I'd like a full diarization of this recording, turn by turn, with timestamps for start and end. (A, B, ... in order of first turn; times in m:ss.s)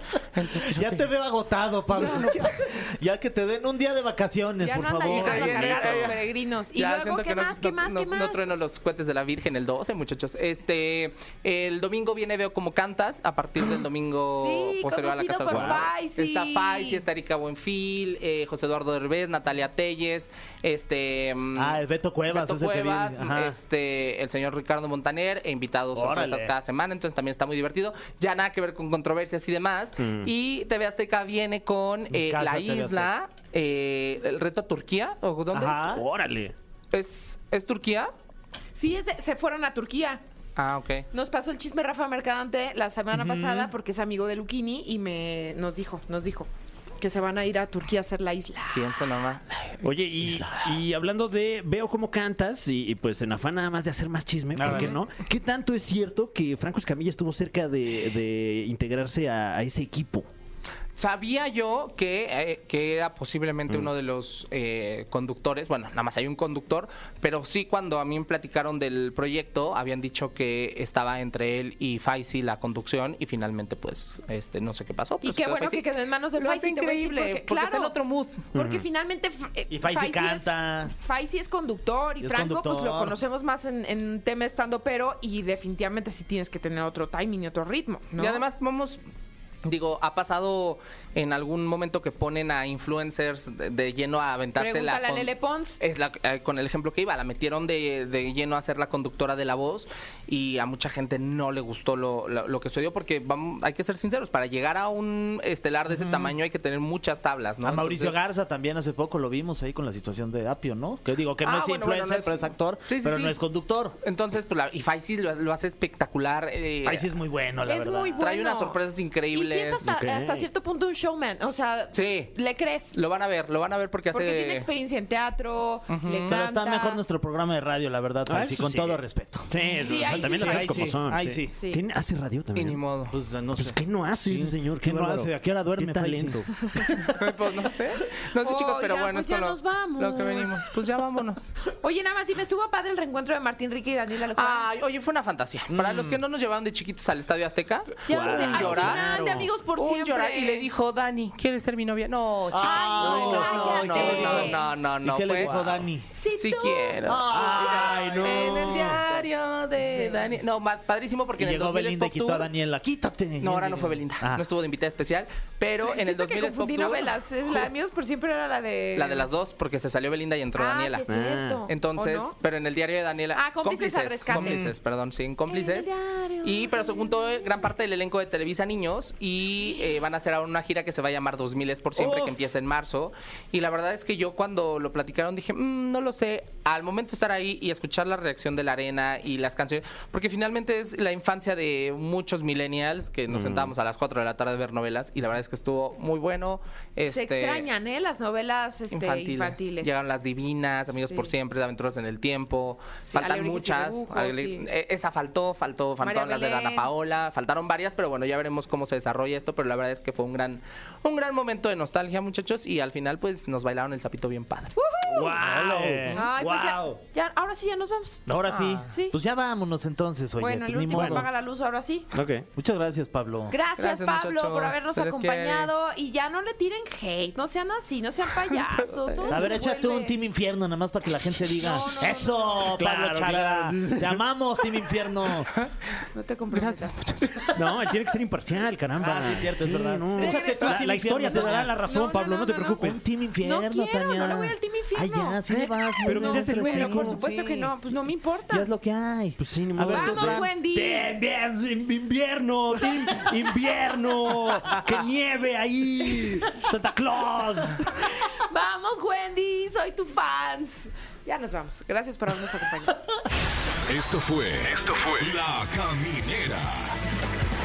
0:00.3-0:01.1 A
0:00.5-0:06.1 B
0:01.9-0:02.5 C
0:02.0-0:02.3 A
0:04.6-0:08.4 C
0:05.1-0:06.2 A
0:06.7-0:36.0 A
0:14.3-0:17.0 C
0:15.5-0:15.8 D
0:21.5-0:23.6 B
0:25.9-0:26.5 B
0:30.0-0:30.3 D
0:32.1-0:33.1 B
0:35.5-0:36.0 B
0:35.9-0:36.5 D
0:36.9-0:38.1 A
0:38.7-0:40.2 C
0:40.6-0:41.0 A
0:41.1-0:48.9 C
0:43.1-0:43.7 B
0:48.7-0:49.9 A
0:49.8-1:00.3 D
0:54.5-0:55.0 B
1:01.0-1:18.4 A
1:15.2-1:17.9 C
1:18.5-1:28.4 C
1:18.5-1:18.8 D
1:19.7-1:20.9 B
1:22.2-1:23.2 B
1:28.1-1:29.0 A
1:29.6-1:48.1 A
1:34.6-1:35.8 C
1:45.9-1:46.4 B
1:47.6-1:53.9 B
1:51.4-1:53.4 A
1:54.0-1:57.1 A
1:56.8-1:58.2 B
1:57.7-1:58.8 C
1:58.2-1:59.9 A
1:59.3-2:03.0 C
1:59.8-2:00.4 D
2:01.9-2:02.3 A
2:02.9-2:04.7 A
2:04.1-2:07.0 C
2:05.9-2:06.4 A
2:06.3-2:11.5 B
2:08.3-2:12.8 D
2:09.6-2:11.0 C
2:11.5-2:11.8 C
2:12.5-2:13.2 A
2:13.1-2:17.2 B
2:13.5-2:16.5 D
2:17.1-2:21.5 A
2:18.4-2:20.7 C
2:21.6-2:24.7 C
2:24.3-2:29.0 A
2:25.7-2:26.2 B
2:28.0-2:30.6 C
2:28.1-2:29.5 D
2:29.7-2:35.6 A
2:32.5-2:36.1 B
2:32.6-2:34.6 C
2:36.1-2:38.4 C
2:36.2-2:42.5 A
2:37.1-2:39.0 D
2:37.3-2:38.6 B
2:39.8-2:40.3 C
2:41.4-2:44.4 B
2:43.4-2:47.7 A
2:45.8-2:49.3 C
2:48.9-2:51.0 A
2:50.6-2:52.3 C
2:51.1-2:51.6 D
2:51.7-2:55.9 A
2:53.3-2:54.7 C
2:54.3-2:54.7 B
2:55.5-2:57.6 C
2:56.4-3:17.7 A
3:13.3-3:13.7 D
3:17.0-3:19.9 C
3:18.9-3:34.7 A
3:21.0-3:21.3 C
3:23.0-3:24.6 C
3:26.0-3:26.9 C
3:34.8-3:35.4 C
3:35.1-3:37.0 D
3:35.2-3:36.8 B
3:36.1-3:39.2 C
3:38.3-3:41.2 B
3:40.4-3:42.1 C
3:40.9-3:41.2 D
3:42.1-3:42.5 D
3:42.6-3:43.5 B
3:43.5-3:50.1 C
3:43.8-3:45.7 A
3:48.8-3:49.5 A
3:49.3-3:55.5 B
3:51.5-3:52.7 C
3:52.6-3:54.2 D
3:56.1-3:57.5 C
3:56.5-3:57.6 A
3:57.5-4:03.0 D
3:59.0-4:01.7 B
4:00.2-4:02.8 C
4:02.8-4:07.7 B
4:03.4-4:08.7 C
4:06.0-4:07.2 D
4:08.5-4:10.5 B
4:09.4-4:18.0 D
4:09.9-4:11.1 C
4:18.0-4:23.0 C
4:23.9-4:27.0 E